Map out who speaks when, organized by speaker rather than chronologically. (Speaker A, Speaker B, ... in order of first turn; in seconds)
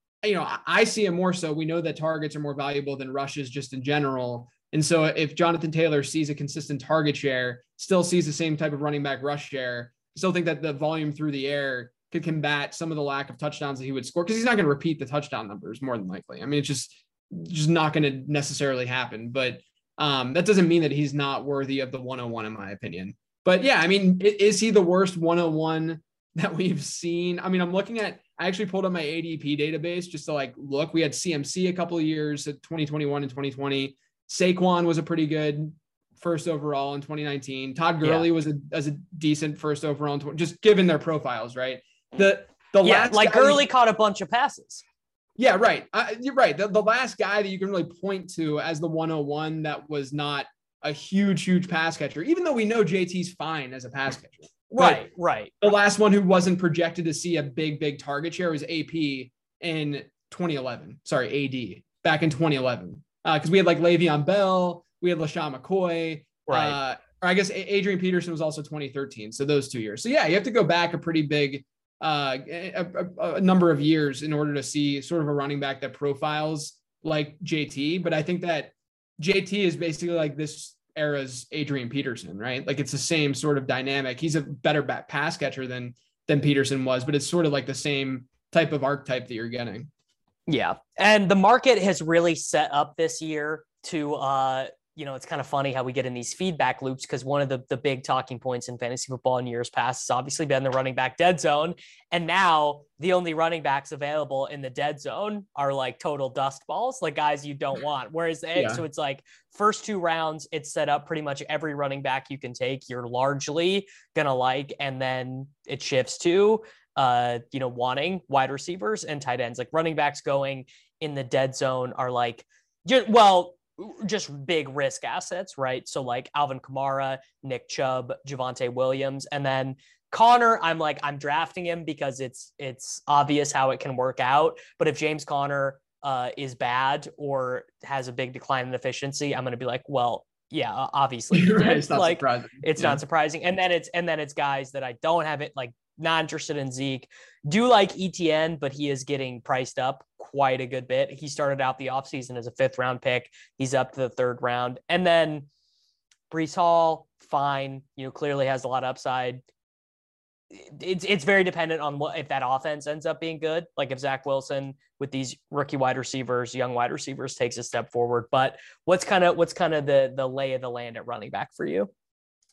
Speaker A: 0.2-43.6, 45.4-55.1, 55.6-89.9, 108.5-108.8, 141.3-143.0
Speaker B: 42.8-44.8, 54.7-55.5, 66.5-66.8, 90.5-155.5, 156.3-159.4, 160.5-171.9